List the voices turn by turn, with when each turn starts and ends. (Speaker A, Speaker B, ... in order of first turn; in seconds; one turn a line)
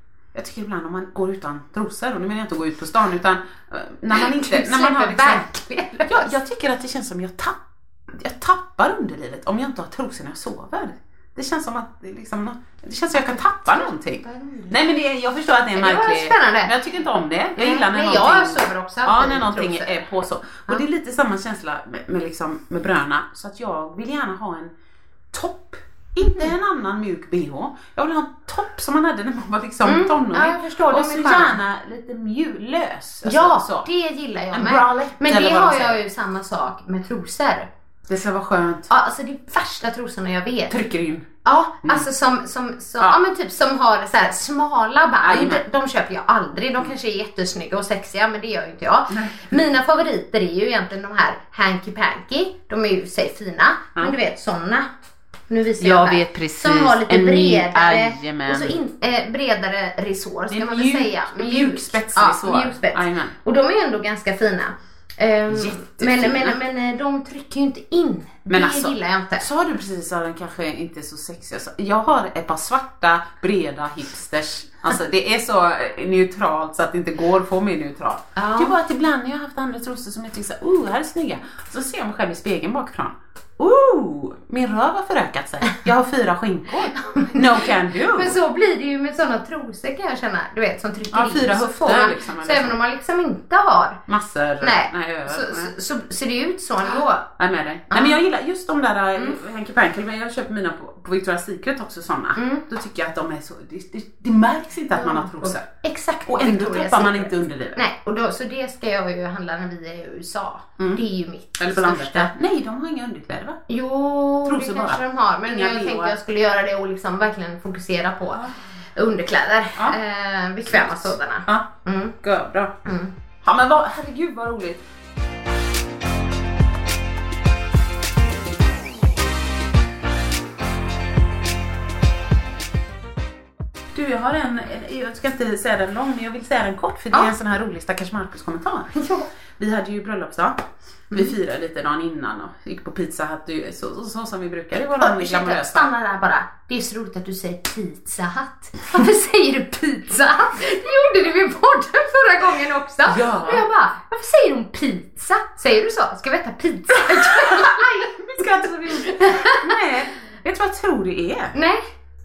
Speaker A: 0.3-5.5
Speaker B: 4.1-6.3
Speaker A: 6.1-24.7
Speaker B: 13.2-14.8
Speaker B: 15.8-16.7
Speaker B: 17.6-20.0
Speaker A: 25.3-33.9
Speaker B: 29.9-31.6
Speaker B: 33.2-37.7
Speaker A: 34.5-36.0
Speaker A: 38.1-38.9
Speaker B: 38.9-40.8
Speaker A: 40.7-41.3
Speaker B: 41.4-54.9
Speaker A: 45.2-45.6
Speaker A: 49.1-49.5
Speaker B: 55.5-69.5
Speaker A: 55.8-58.8
Speaker A: 60.5-63.4
Speaker A: 65.5-66.6
Speaker A: 68.5-88.4
Speaker B: 78.4-78.8
Speaker B: 86.9-94.0
Speaker A: 91.1-92.8
Speaker A: 94.1-95.7
Speaker B: 94.6-97.3
Speaker A: 97.4-105.7
Speaker B: 97.9-98.2
Speaker B: 102.4-102.6
Speaker B: 104.9-112.3
Speaker A: 106.3-107.8
Speaker A: 111.6-113.6
Speaker B: 113.7-122.1
Speaker A: 114.4-116.2
Speaker A: 120.7-122.8
Speaker B: 122.8-123.1
Speaker A: 123.4-124.8
Speaker A: 133.9-145.9
Speaker B: 138.9-139.2
Speaker B: 145.0-158.1
Speaker A: 153.1-153.7
Speaker A: 156.9-161.5
Speaker B: 159.0-159.7
Speaker B: 161.5-161.8